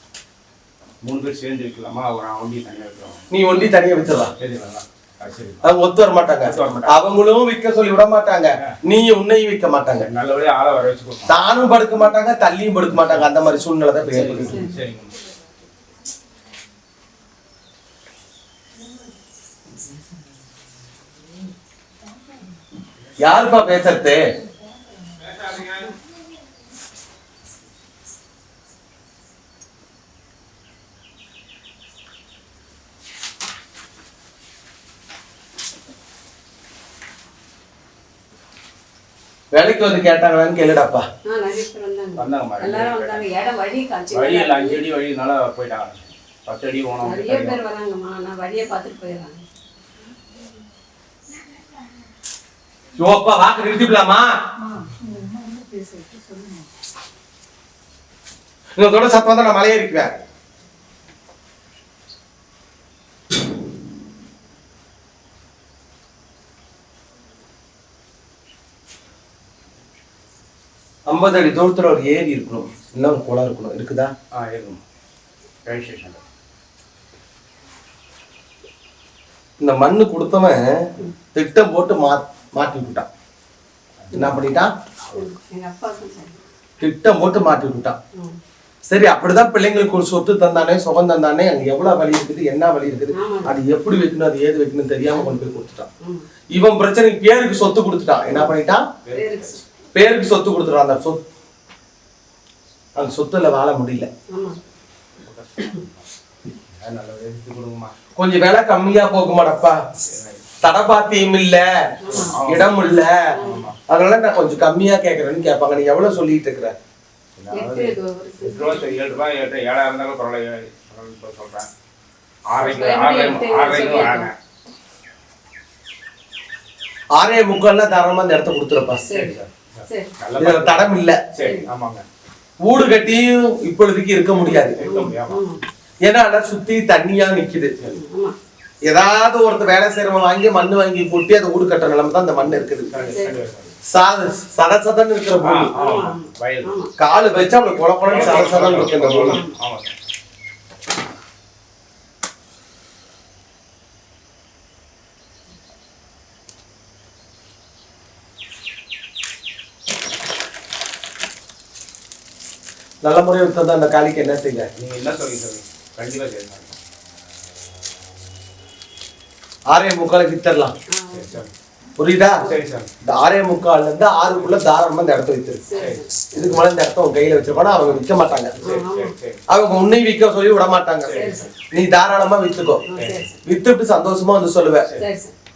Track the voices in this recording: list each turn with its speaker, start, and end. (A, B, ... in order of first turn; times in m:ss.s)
0:01.0-0:03.3 A
0:03.3-0:04.3 B
0:04.4-0:05.6 A
0:05.6-0:10.1 B
0:06.4-0:07.0 A
0:10.0-0:11.3 A
0:11.3-0:14.6 B
0:12.9-0:13.3 A
0:14.0-0:15.2 A
0:14.1-0:14.8 C
0:23.2-0:24.2 B
0:25.3-0:25.9 A
0:39.5-0:41.0 B
0:41.2-0:44.8 C
0:42.2-0:43.3 A
0:44.1-0:47.6 A
0:47.0-0:49.4 C
0:52.9-0:54.3 B
0:58.8-1:00.2 B
1:11.0-1:14.1 B
1:14.3-1:14.8 A
1:15.6-1:16.2 A
1:19.6-1:23.1 B
1:24.0-1:24.4 A
1:24.1-1:24.4 C
1:24.1-1:24.7 B
1:25.1-1:26.4 C
1:26.8-1:28.0 B
1:28.9-1:35.9 B
1:33.1-1:33.5 C
1:36.5-1:38.8 B
1:39.0-1:39.6 A
1:39.1-1:39.6 C
1:39.9-1:41.2 B
1:43.0-1:44.1 B
1:44.3-1:44.6 C
1:45.2-1:46.1 A
1:46.7-1:47.9 A
1:48.2-1:49.8 B
1:50.0-1:50.5 A
1:50.6-1:51.7 B
1:52.0-1:52.4 C
1:52.0-1:52.8 A
1:52.4-1:53.2 B
1:53.3-1:53.7 C
1:53.4-1:53.8 A
1:53.9-1:56.7 B
1:57.4-2:01.7 A
1:57.5-1:58.9 C
2:02.5-2:04.3 A
2:02.6-2:04.3 C
2:07.2-2:09.1 B
2:09.1-2:10.1 C
2:09.1-2:12.0 A
2:10.4-2:11.2 B
2:11.4-2:11.7 C
2:12.6-2:14.8 B
2:14.4-2:15.6 C
2:14.7-2:15.4 A
2:16.0-2:17.8 B
2:17.9-2:18.3 C
2:18.9-2:23.1 B
2:22.9-2:23.8 A
2:23.0-2:23.4 C
2:23.9-2:25.7 B
2:25.4-2:26.7 A
2:25.7-2:26.9 C
2:27.0-2:29.4 B
2:28.1-2:29.9 A
2:29.2-2:29.5 C
2:43.0-2:44.7 B
2:44.8-2:46.7 A
2:49.7-2:50.7 B
2:50.9-2:51.4 C
2:51.1-2:51.5 A
2:52.0-2:52.4 B
2:52.4-2:52.6 C
2:52.4-2:52.9 A
2:53.0-2:55.6 B
2:55.7-2:56.3 C
2:55.8-2:56.5 A
2:56.3-2:58.5 B
2:57.6-2:58.0 A
2:58.5-2:59.4 A
2:58.6-2:59.1 C
2:59.5-3:02.8 B
3:01.0-3:01.5 A
3:01.1-3:01.5 C
3:02.8-3:03.4 C
3:02.9-3:03.2 A
3:03.4-3:04.8 B
3:05.0-3:05.3 C